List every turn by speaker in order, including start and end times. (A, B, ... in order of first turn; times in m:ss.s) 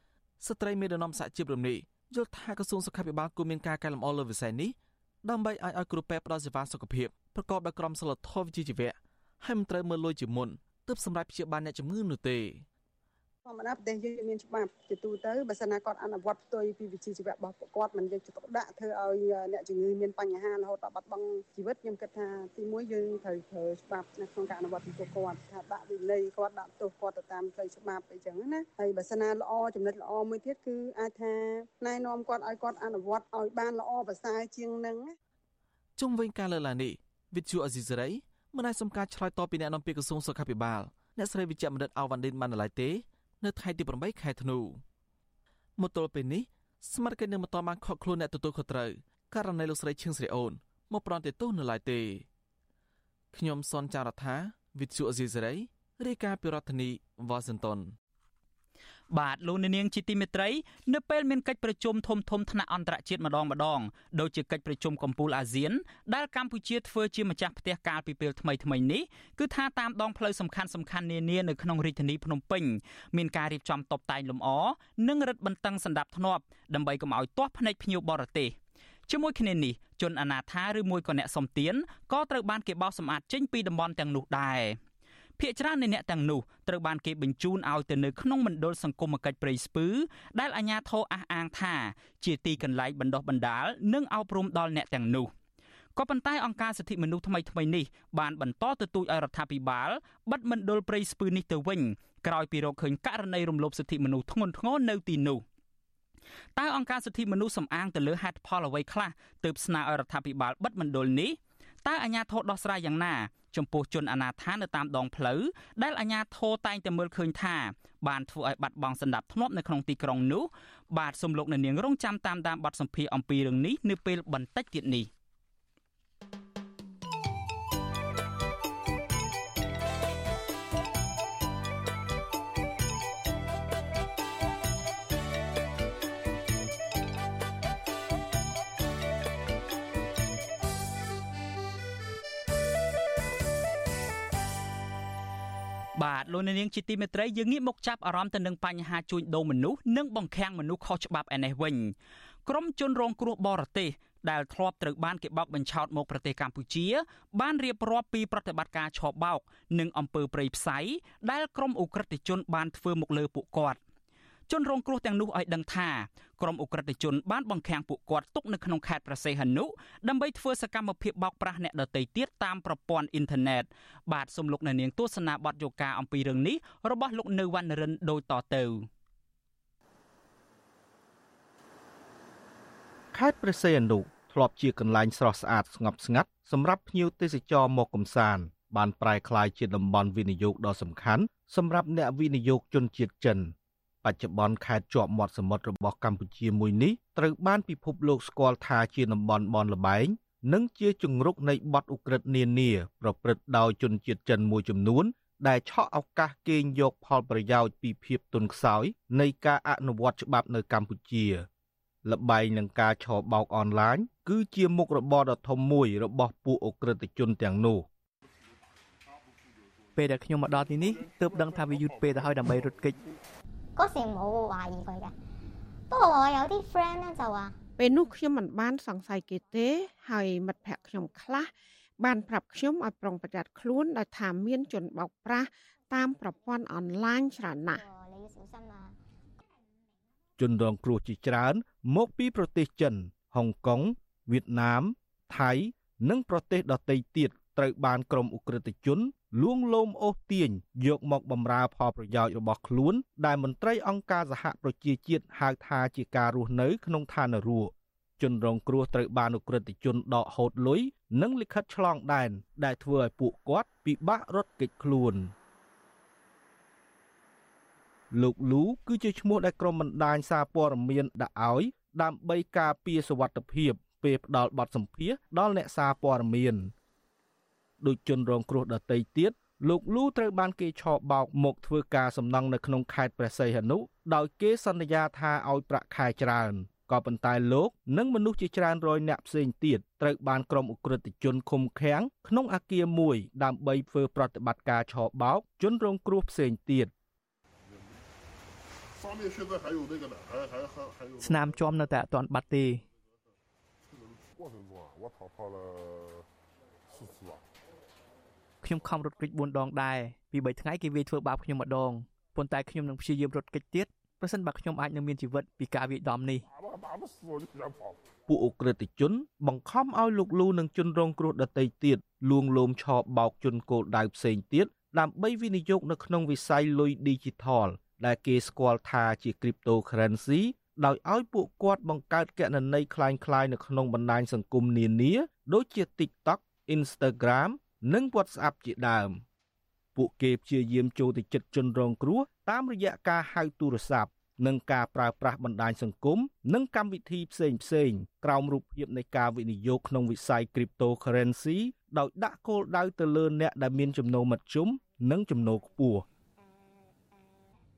0:00.4-0:12.6 A
0:13.4-0:35.1 B
0:36.0-0:44.8 A
0:45.8-0:52.2 A
0:53.3-0:57.9 A
0:59.1-1:18.6 C
1:19.1-1:24.8 C
1:25.4-1:35.3 C
1:36.0-1:45.4 C
1:46.6-2:05.1 C
2:25.9-2:31.9 C
2:32.4-2:43.8 C
2:44.5-2:58.9 C
3:03.1-3:13.5 D
3:14.0-3:31.4 D
3:32.0-3:37.8 D
3:39.9-3:43.0 E
3:43.8-3:45.1 F
3:45.9-3:47.6 F
3:47.8-3:57.8 G
3:57.7-3:59.0 F
4:00.4-4:25.3 D
4:28.1-4:36.7 D
4:37.8-4:56.9 D
5:01.2-5:02.8 E
5:08.6-5:16.4 E
5:18.3-5:39.2 D
5:39.9-5:56.0 D
5:56.4-5:56.8 F